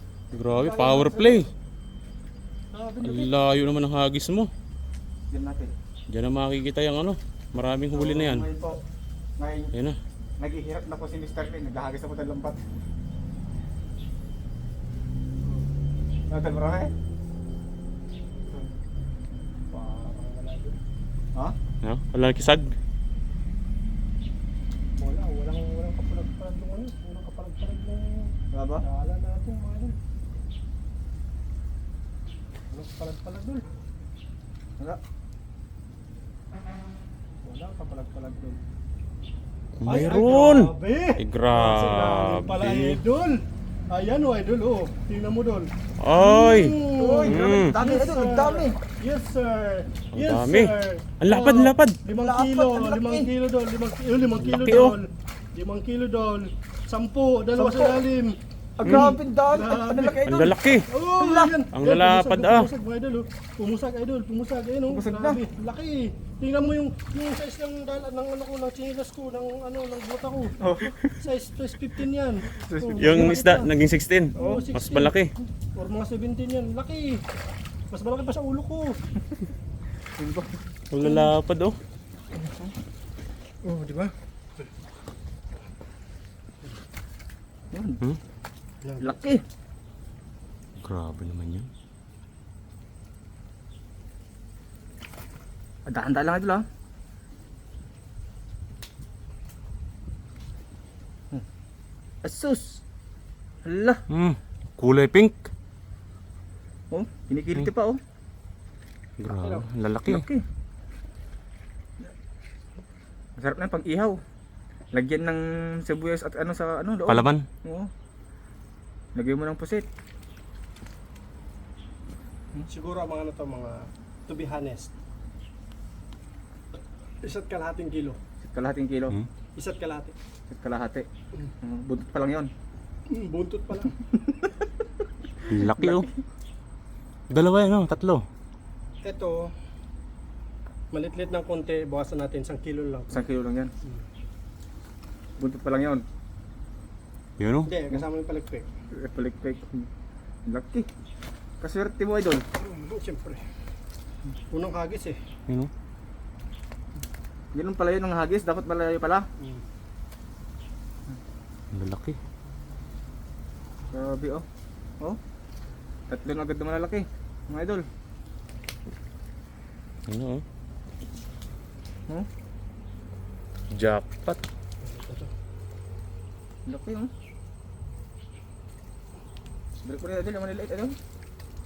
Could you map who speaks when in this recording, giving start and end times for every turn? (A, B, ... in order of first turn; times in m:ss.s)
0:00.3-0:01.5 A
0:00.5-0:01.4 B
0:02.7-0:03.5 B
0:03.0-0:04.5 A
0:05.3-0:05.7 B
0:06.1-0:08.5 A
0:07.9-0:08.8 B
0:09.4-0:09.7 B
0:10.4-0:12.6 B
0:16.3-0:16.9 B
0:18.5-0:18.7 B
0:19.7-0:20.8 C
0:21.8-0:22.7 A
0:25.0-0:30.0 C
0:28.5-0:28.8 B
0:32.7-0:33.6 C
0:37.4-0:38.6 C
0:39.8-0:43.0 A
0:39.8-0:40.4 B
0:39.8-1:00.2 C
0:46.0-0:47.7 A
0:47.0-0:48.8 B
0:50.1-0:52.0 A
0:52.1-0:53.3 B
0:54.4-0:55.0 A
0:57.5-0:58.0 B
0:58.8-1:00.6 B
0:58.8-0:59.1 A
1:00.2-1:00.9 A
1:00.9-1:10.6 C
1:01.1-1:01.6 B
1:01.7-1:02.7 A
1:04.9-1:05.4 B
1:10.6-1:11.2 B
1:11.2-1:13.7 C
1:12.5-1:13.4 B
1:13.0-1:15.3 A
1:14.3-1:15.1 C
1:14.4-1:14.7 B
1:15.7-1:17.2 C
1:17.9-1:19.0 C
1:20.2-1:20.5 B
1:20.9-1:21.8 A
1:21.0-1:21.3 C
1:23.6-1:24.1 C
1:27.7-1:28.0 B
1:28.8-1:29.2 C
1:29.0-1:29.4 B
1:30.8-1:31.7 A
1:35.9-1:36.6 B
1:42.2-1:42.8 B
1:43.6-1:44.0 B
1:44.1-1:45.5 A
1:46.9-1:48.0 B
1:49.2-1:50.2 A
1:49.3-1:49.7 C
1:50.1-1:50.4 B
1:53.4-1:54.2 B
1:54.9-1:57.9 B
1:57.1-1:57.4 A
1:59.1-1:59.8 B
2:02.7-2:04.9 C
2:07.2-2:08.2 C
2:08.4-2:09.2 B
2:09.6-2:10.1 C
2:10.5-2:11.1 B
2:11.6-2:12.5 B
2:13.1-2:13.9 C
2:14.0-2:14.5 B
2:15.5-2:16.1 A
2:15.7-2:16.1 B
2:17.3-2:18.2 A
2:19.0-2:19.5 C
2:20.9-2:23.2 C
2:23.1-2:23.7 B
2:25.4-2:26.0 B
2:27.4-2:27.7 A
2:27.7-2:28.7 C
2:28.9-2:29.9 B
2:30.5-2:30.9 B
2:31.6-2:32.4 B
2:32.6-2:33.4 C
2:34.5-2:35.2 C
2:37.5-2:39.3 B
2:41.7-2:42.2 A
2:43.9-2:44.4 B
2:46.1-2:47.8 B
2:50.1-2:50.4 A
2:53.7-2:54.4 A
2:54.8-2:55.3 C
2:56.7-2:57.1 B
2:59.8-3:00.9 B